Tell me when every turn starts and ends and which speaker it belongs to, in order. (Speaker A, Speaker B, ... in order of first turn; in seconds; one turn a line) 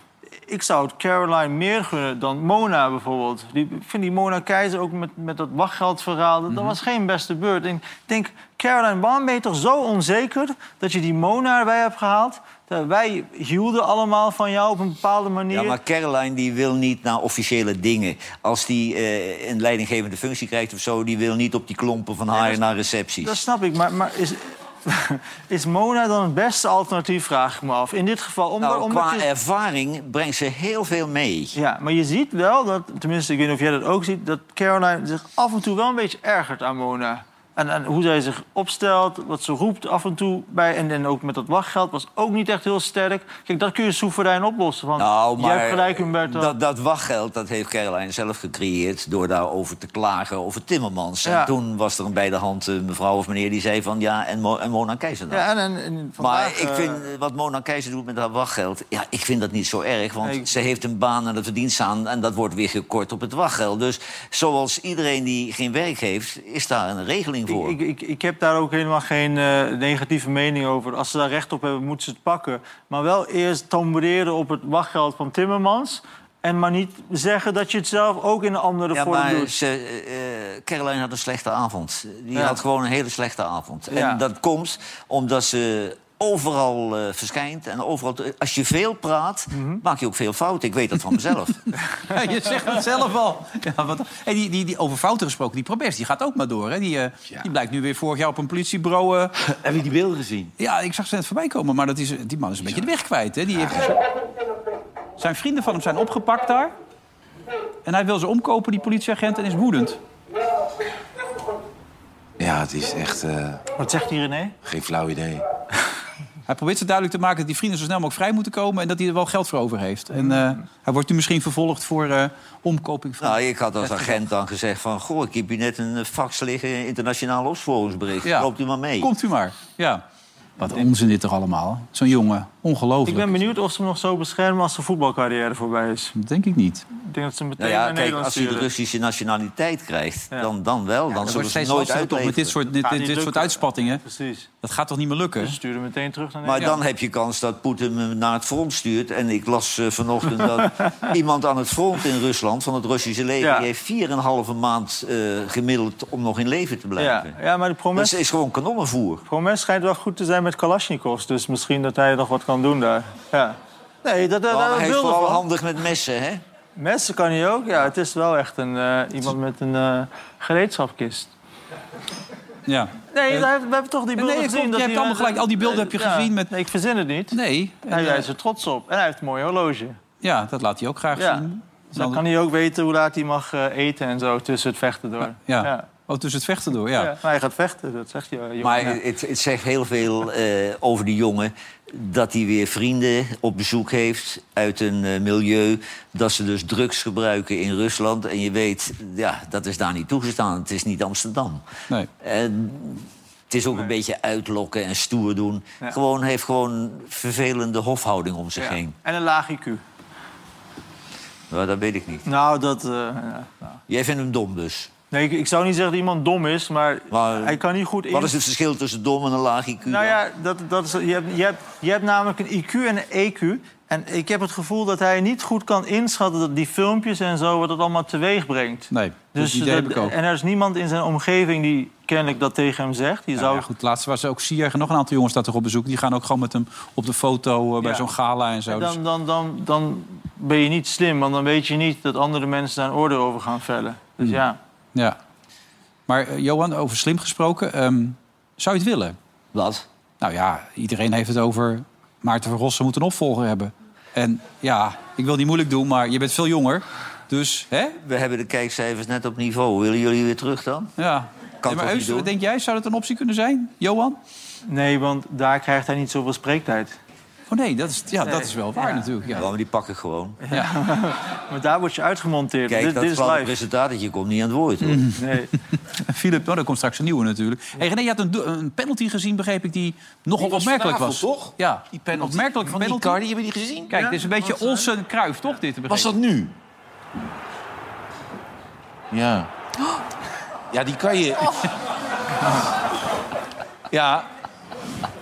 Speaker A: 0.5-15.8
Speaker B: 6.5-6.8
Speaker C: 15.5-23.4
Speaker A: 22.3-22.6
Speaker A: 23.2-29.2
Speaker C: 28.6-31.6
Speaker A: 31.5-46.5
Speaker C: 45.0-55.5
Speaker A: 51.2-51.5
Speaker A: 55.3-57.0
Speaker C: 56.2-67.8
Speaker A: 67.5-79.5
Speaker C: 78.9-91.7
Speaker A: 82.3-82.6
Speaker A: 83.9-84.2
Speaker A: 89.5-89.8
Speaker B: 92.1-99.3
Speaker D: 99.4-100.5
Speaker B: 100.6-104.0
Speaker D: 103.5-103.9
Speaker B: 105.2-106.7
Speaker B: 107.8-110.0
Speaker D: 112.4-113.6
Speaker A: 113.8-114.5
Speaker D: 114.6-115.4
Speaker B: 116.5-123.4
Speaker C: 123.2-129.1
Speaker B: 129.0-130.0
Speaker B: 130.6-133.4
Speaker A: 133.0-136.1
Speaker B: 136.2-136.8
Speaker A: 136.9-138.7
Speaker C: 137.6-142.6
Speaker B: 141.2-144.0
Speaker A: 142.7-144.5
Speaker B: 144.6-145.6
Speaker A: 145.4-146.8
Speaker C: 146.4-157.4
Speaker A: 153.4-153.7
Speaker A: 157.0-158.2
Speaker C: 157.9-159.2
Speaker A: 159.3-165.4
Speaker C: 164.5-166.4
Speaker A: 166.8-171.3
Speaker B: 172.7-173.5
Speaker A: 173.1-180.0
Speaker B: 174.2-176.5
Speaker B: 177.3-178.3
Speaker B: 180.2-182.2
Speaker A: 181.1-185.9
Speaker B: 185.4-187.1
Speaker A: 186.9-189.0
Speaker C: 188.6-201.6
Speaker C: 202.2-208.9
Speaker A: 208.6-209.8
Speaker C: 211.5-212.3
Speaker A: 212.2-213.8
Speaker C: 213.9-214.9
Speaker A: 215.1-218.3
Speaker C: 217.1-220.2
Speaker A: 219.9-233.7
Speaker B: 228.9-230.1
Speaker B: 233.4-239.0
Speaker A: 237.8-238.1
Speaker A: 238.7-244.6
Speaker B: 246.1-249.2
Speaker C: 249.5-249.8
Speaker B: 250.2-258.0
Speaker C: 258.0-260.9
Speaker B: 261.0-264.2
Speaker C: 261.6-262.3
Speaker A: 264.6-267.0
Speaker B: 267.5-269.5
Speaker A: 268.2-269.3
Speaker C: 269.4-270.4
Speaker A: 270.4-273.5
Speaker C: 272.7-275.1
Speaker B: 274.8-283.2
Speaker A: 275.2-275.5
Speaker D: 280.4-284.1
Speaker B: 283.9-286.1
Speaker A: 283.9-284.9
Speaker D: 285.9-286.5
Speaker D: 289.1-289.5
Speaker D: 290.7-291.7
Speaker D: 293.9-294.3